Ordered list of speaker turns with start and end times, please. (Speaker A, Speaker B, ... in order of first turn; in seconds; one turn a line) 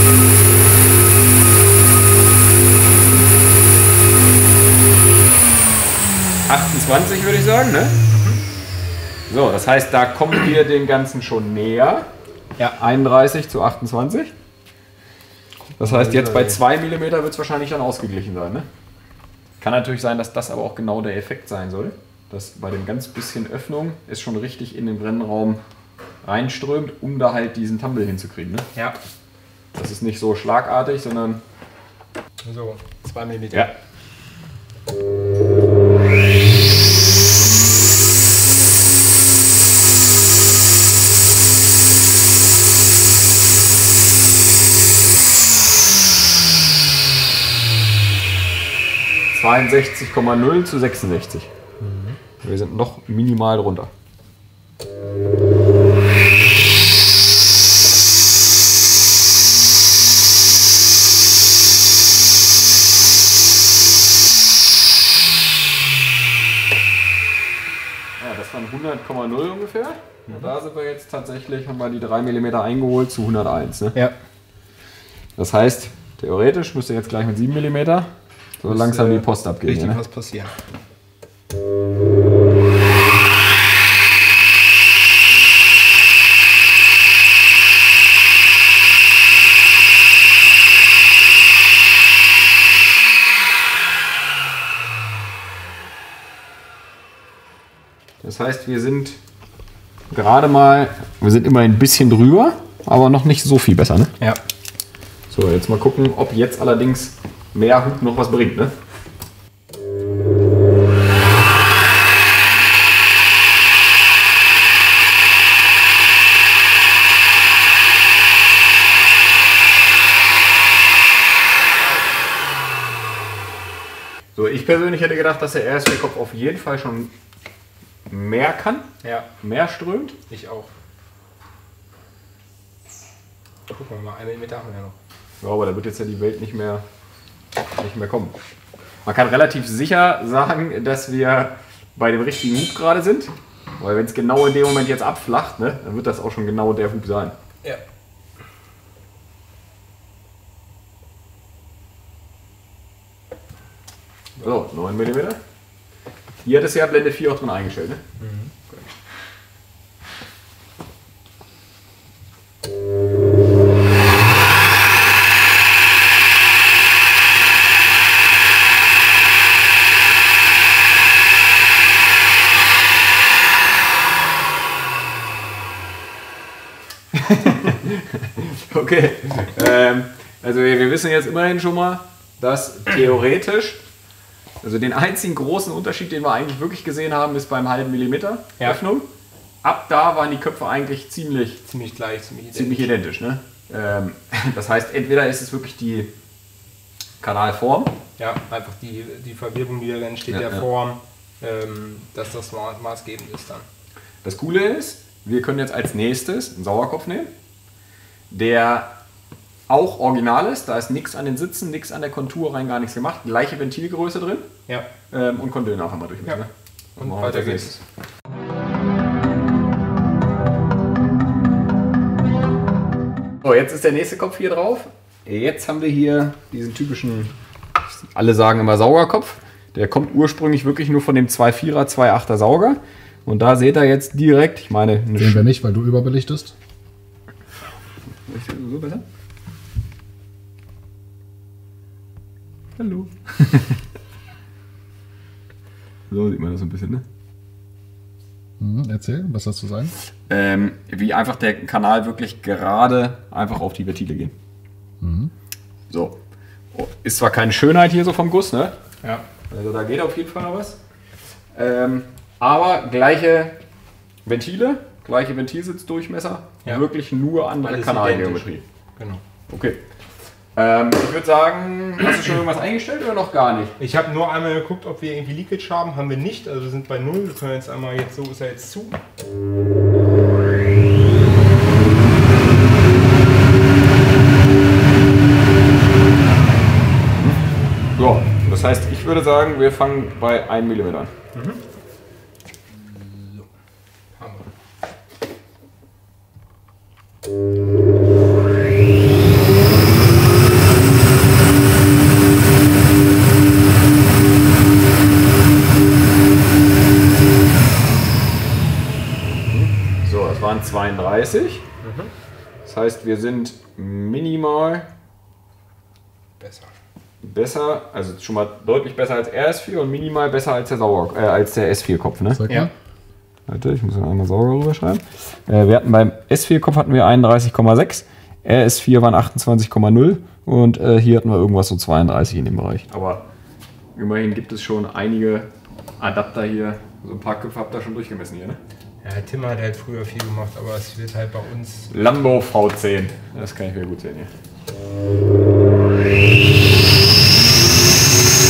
Speaker A: 6.5-8.0
Speaker B: 8.1-8.4
Speaker A: 9.3-12.1
Speaker A: 12.8-14.3
Speaker B: 15.7-16.6
Speaker A: 15.8-18.7
Speaker A: 19.6-25.6
Speaker A: 26.2-28.7
Speaker A: 29.8-31.4
Speaker B: 32.5-33.7
Speaker A: 49.3-51.5
Speaker B: 51.8-52.1
Speaker A: 52.4-53.9
Speaker A: 68.2-74.0
Speaker A: 75.4-78.1
Speaker A: 78.6-80.0
Speaker B: 78.7-80.5
Speaker A: 98.2-99.2
Speaker A: 100.1-104.1
Speaker A: 105.3-108.7
Speaker B: 121.8-122.1
Speaker A: 124.3-127.1
Speaker A: 128.1-128.9
Speaker B: 129.0-129.3
Speaker A: 129.4-130.2
Speaker B: 130.3-130.7
Speaker B: 133.7-135.0
Speaker A: 135.4-136.8
Speaker A: 137.8-138.3
Speaker A: 139.0-147.3
Speaker A: 154.4-155.4
Speaker A: 156.4-158.0
Speaker B: 158.2-158.5
Speaker A: 177.1-183.8
Speaker A: 184.6-189.1
Speaker A: 189.6-191.6
Speaker B: 191.7-192.9
Speaker A: 192.5-196.1
Speaker A: 197.2-198.0
Speaker B: 198.2-203.7
Speaker A: 200.3-200.6
Speaker A: 204.2-207.3
Speaker A: 208.3-208.9
Speaker A: 209.7-214.5
Speaker A: 215.1-217.8
Speaker B: 217.0-217.7
Speaker A: 223.4-227.3
Speaker A: 228.0-235.4
Speaker C: 235.2-236.5
Speaker A: 238.3-239.0
Speaker A: 242.8-243.8
Speaker A: 246.1-247.0
Speaker C: 248.6-249.9
Speaker A: 250.3-254.3
Speaker C: 255.0-255.3
Speaker A: 255.9-256.1
Speaker A: 256.7-258.8
Speaker A: 259.5-260.8
Speaker A: 261.5-263.6
Speaker A: 264.2-268.6
Speaker B: 267.6-269.2
Speaker A: 269.5-269.8
Speaker A: 270.6-273.8
Speaker B: 273.8-279.0
Speaker A: 287.2-287.4
Speaker A: 288.0-291.1
Speaker B: 291.3-291.6
Speaker B: 292.7-293.5
Speaker B: 294.1-294.5
Speaker A: 309.3-311.6
Speaker B: 311.8-312.1
Speaker A: 312.6-314.9
Speaker B: 316.4-316.7
Speaker A: 317.2-322.4
Speaker C: 322.3-322.7
Speaker A: 323.5-333.2
Speaker A: 334.0-338.6
Speaker B: 339.0-341.9
Speaker A: 341.9-344.3